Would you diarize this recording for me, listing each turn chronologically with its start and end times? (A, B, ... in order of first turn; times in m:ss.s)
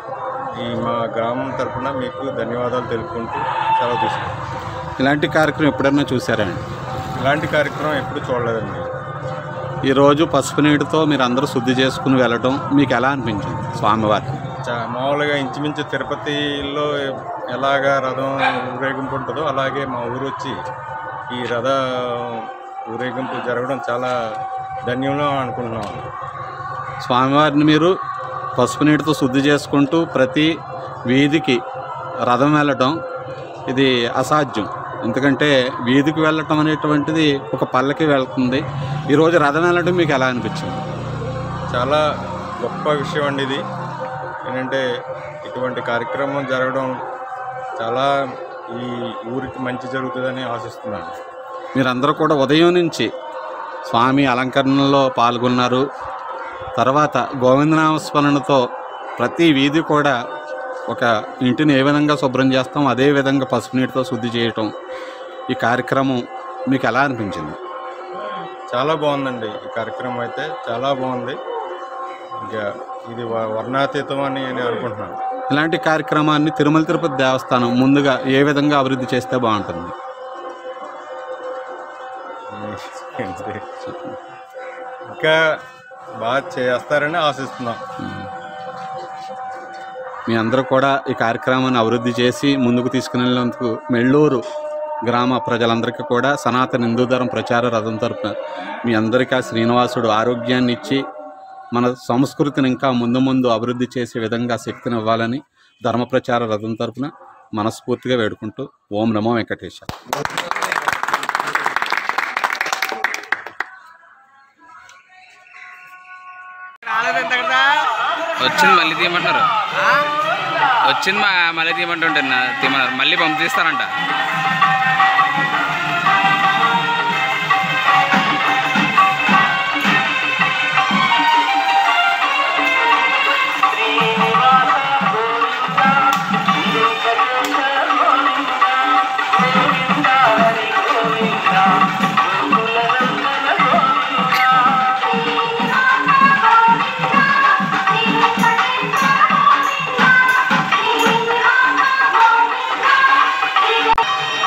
0:00.6-0:04.3 A
0:05.0-0:06.6 B
0:07.2-0:08.9 A
0:09.9-0:14.4 B
0:14.6-0:16.9 A
0:17.5-0:20.6 A
0:21.3-0:24.1 A
0:24.9-0:26.0 A
0:27.0-0:27.9 B
0:28.6-0:30.5 B
0:31.1-0:31.6 B
0:32.3-0:33.0 B
0:33.7-0:40.8 B
0:41.7-0:42.0 A
0:42.6-0:43.6 A
0:44.5-0:44.8 A
0:45.4-0:47.0 A
0:47.8-0:48.1 A
0:48.8-0:51.2 A
0:51.8-0:53.1 B
0:53.9-0:55.8 B
0:56.8-0:58.6 B
0:59.2-1:00.1 B
1:00.9-1:04.7 B
1:05.5-1:07.6 B
1:08.7-1:11.4 A
1:12.4-1:15.2 A
1:15.5-1:19.9 B
1:22.5-1:23.6 A
1:23.9-1:24.2 B
1:25.1-1:25.4 A
1:26.2-1:27.8 A
1:30.3-1:34.4 B
1:35.1-1:38.3 B
1:38.9-1:41.0 B
1:41.8-1:49.9 B
1:58.4-1:59.4 C
2:00.9-2:03.9 C